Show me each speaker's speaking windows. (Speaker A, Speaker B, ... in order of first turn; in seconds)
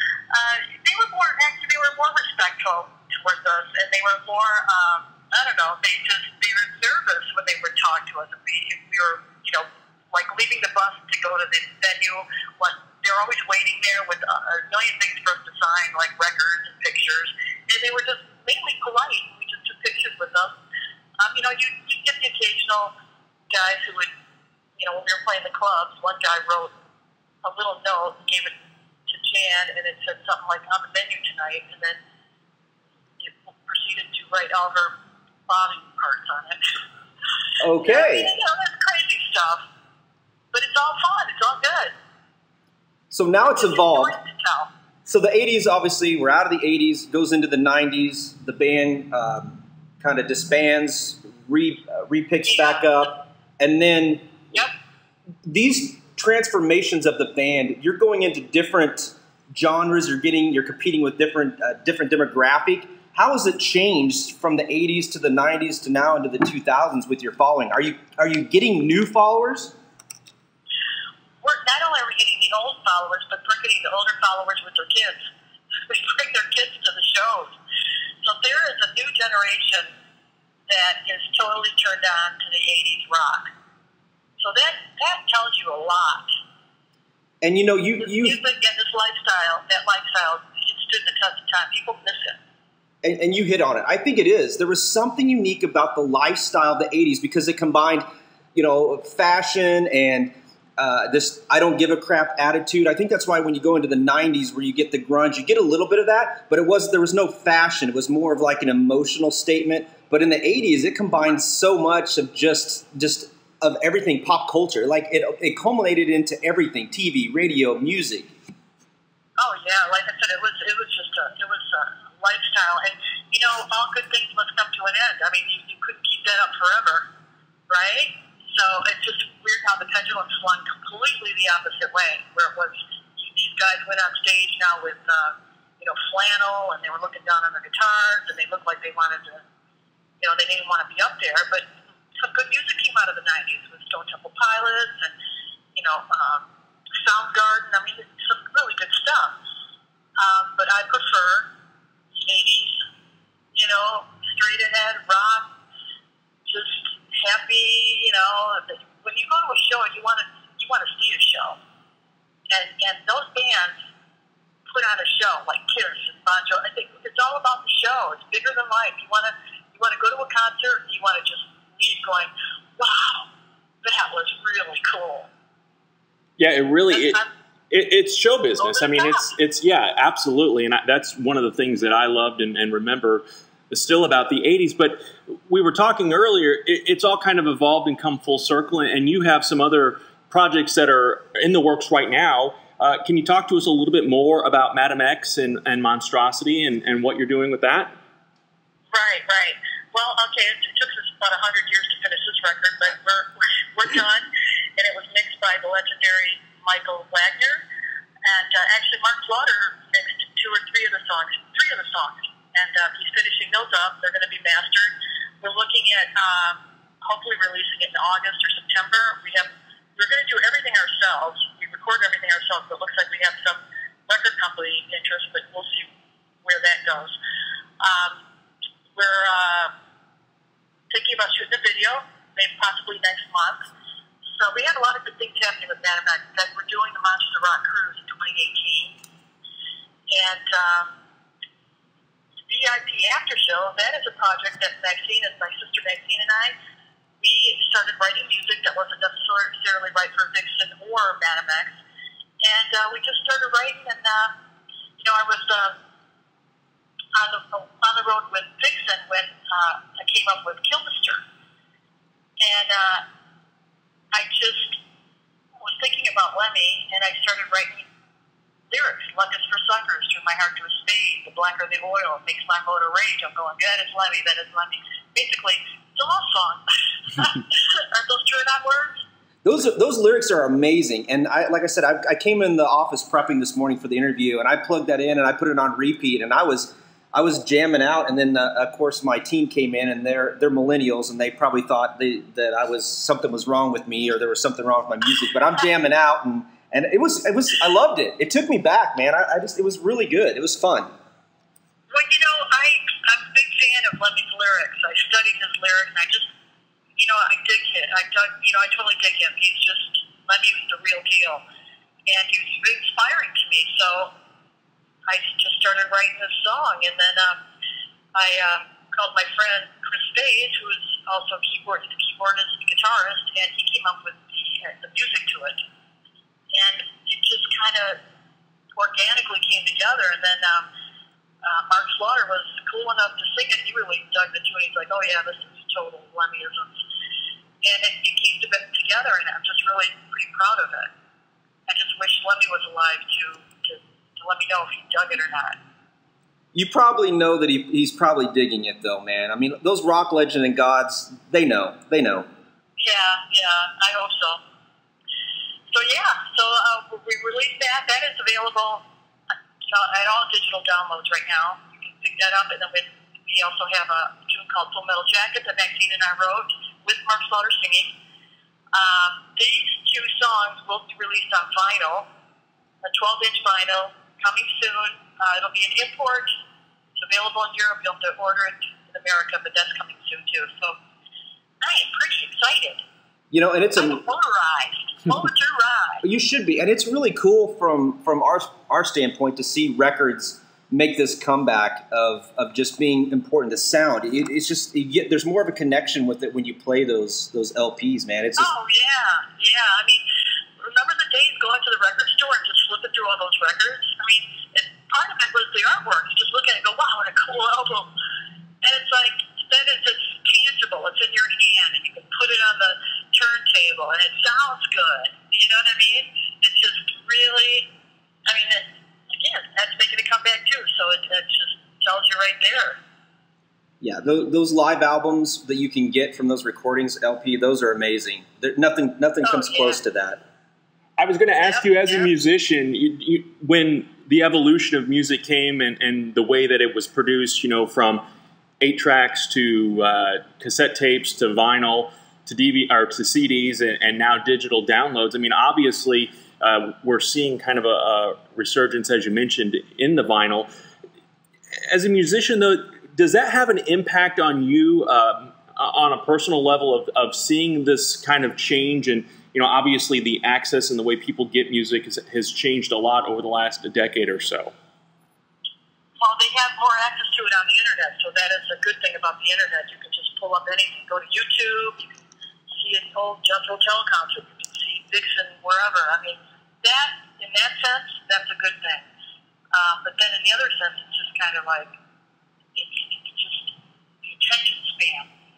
Speaker A: 0.3-20.6, 21.2-22.9, 23.5-24.1, 24.8-26.7, 27.4-32.0, 33.2-35.0, 35.5-36.6, 37.8-39.7, 40.5-42.0, 43.5-44.7, 52.5-52.9, 71.4-75.2, 75.9-77.6, 78.2-79.9, 80.7-83.5, 84.4-86.3, 88.0-92.4, 119.4-127.1, 127.7-139.4, 140.2-145.2, 145.8-146.5, 147.0-149.4, 150.2-151.5, 152.1-152.8, 153.5-155.5, 156.5-161.6, 162.5-163.8, 164.7-173.3, 173.8-175.3, 176.9-177.3, 178.6-179.3, 198.9-207.7, 208.3-225.9, 226.4-227.2, 227.8-228.2, 228.9-229.7, 230.9-233.7, 234.4-239.0, 240.1-240.9, 242.5-246.6, 247.2-251.8, 252.4-254.3, 255.0-255.8, 257.2-261.2, 262.4-263.1, 264.1-264.8, 265.6-267.9, 268.7-279.1, 301.9-306.3, 307.0-311.4, 312.1-314.1, 315.1-317.4, 318.1-325.6, 326.5-328.0, 328.8-330.7, 331.4-336.8, 337.6-340.9, 341.7-345.6, 352.8-354.4, 355.7-358.9, 359.7-367.9, 368.7-372.1, 372.8-376.4, 377.0-380.8, 381.6-382.8, 383.8-386.0, 398.4-400.1, 400.6-407.9, 408.6-417.7, 418.3-422.8, 429.2-429.8, 431.4-432.1, 466.0-471.8, 472.5-478.9, 479.5-481.8, 482.6-485.1
Speaker B: 37.6-38.3, 43.1-44.1, 45.1-54.3, 55.5-69.8, 87.4-88.4, 93.0-118.3, 279.4-300.9, 346.5-352.3, 383.3-384.0, 386.0-398.5, 423.8-430.2
Speaker C: 176.4-177.2, 177.7-197.9, 431.0-438.0, 438.6-450.5, 451.7-464.5